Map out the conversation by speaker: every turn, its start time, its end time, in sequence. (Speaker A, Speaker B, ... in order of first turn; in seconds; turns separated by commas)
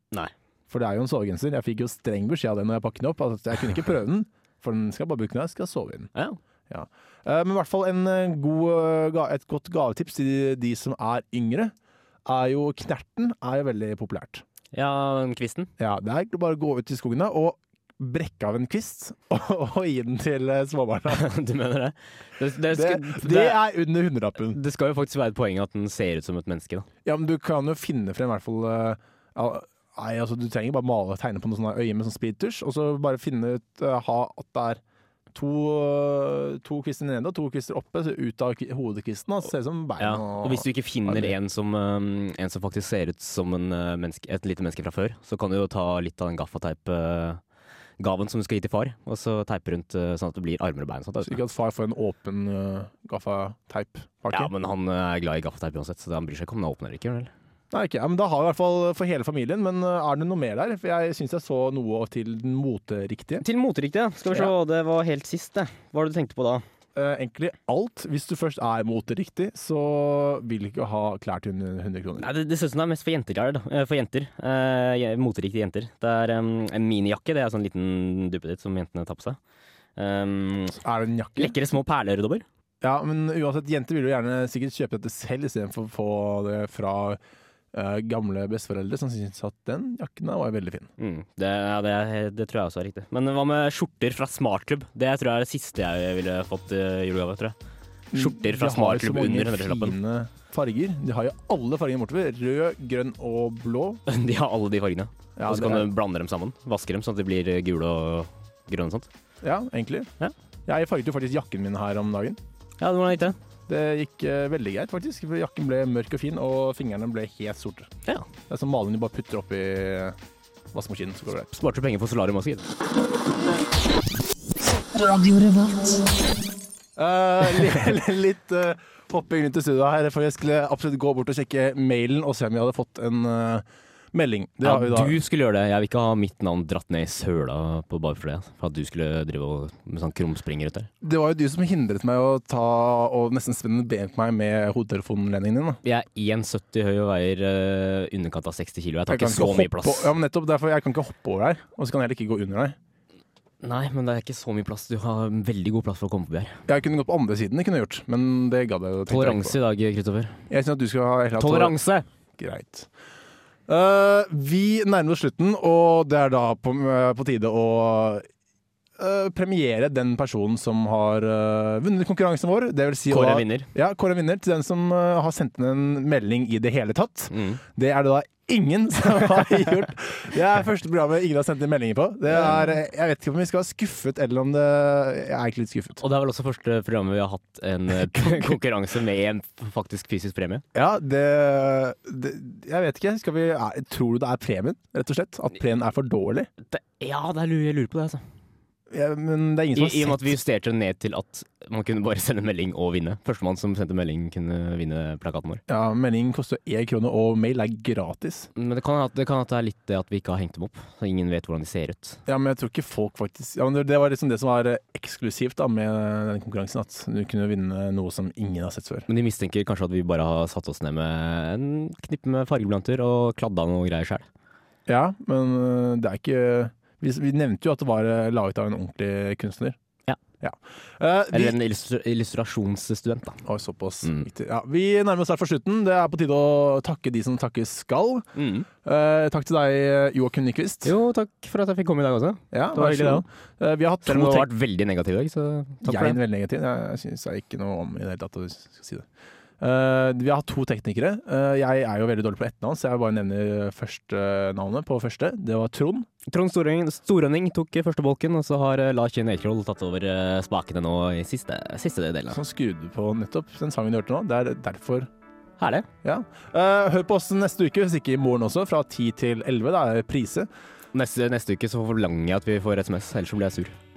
Speaker A: 0.7-6.1, Speaker A: 6.7-11.7, Speaker A: 12.2-14.4, Speaker B: 14.7-15.7, Speaker A: 15.8-21.2, Speaker B: 21.1-23.6, Speaker A: 22.7-24.6, Speaker B: 24.5-26.9, Speaker A: 27.0-34.8, Speaker A: 35.3-41.3, Speaker B: 40.0-47.4, Speaker B: 48.0-51.4, Speaker A: 51.2-54.5, Speaker B: 54.3-57.3, Speaker A: 57.7-63.4, Speaker B: 63.4-66.6, Speaker A: 66.9-72.3, Speaker B: 72.2-79.4, Speaker B: 80.0-80.8, Speaker A: 80.8-81.6, Speaker B: 81.4-82.4, Speaker A: 82.8-87.2, Speaker A: 87.7-90.9, Speaker B: 91.0-97.5, Speaker A: 98.1-104.0, Speaker B: 98.1-99.9, Speaker B: 104.0-109.1, Speaker A: 105.4-105.9, Speaker A: 109.4-110.1, Speaker A: 110.7-112.4, Speaker B: 112.8-113.3, Speaker A: 113.7-117.9, Speaker A: 118.5-120.2, Speaker A: 120.7-121.5, Speaker B: 121.5-122.7, Speaker A: 127.0-135.2, Speaker B: 134.6-140.9, Speaker A: 141.0-145.8, Speaker B: 145.8-150.1, Speaker A: 149.1-152.8, Speaker B: 153.6-156.6, Speaker A: 156.7-159.6, Speaker B: 159.1-160.4, Speaker A: 160.5-161.8, Speaker B: 161.4-162.1, Speaker A: 162.4-162.9, Speaker A: 163.7-168.3, Speaker A: 169.0-186.0, Speaker B: 173.1-173.7, Speaker B: 177.3-177.6, Speaker B: 186.0-190.6, Speaker A: 187.9-188.6, Speaker A: 190.7-196.5, Speaker B: 196.7-198.2, Speaker A: 198.9-200.3, Speaker B: 199.7-205.6, Speaker A: 205.7-208.5, Speaker B: 208.5-212.2, Speaker A: 212.2-219.1, Speaker B: 219.1-224.3, Speaker A: 224.8-229.8, Speaker A: 230.4-231.6, Speaker B: 231.3-233.4, Speaker A: 233.4-238.3, Speaker B: 234.0-234.3, Speaker B: 238.3-238.7, Speaker A: 238.8-240.9, Speaker B: 240.8-243.2, Speaker A: 242.5-244.5, Speaker B: 244.1-246.2, Speaker A: 245.8-249.1, Speaker A: 249.6-256.1, Speaker B: 256.3-262.4, Speaker A: 262.3-265.1, Speaker B: 265.6-265.9, Speaker A: 266.0-270.5, Speaker B: 270.9-273.7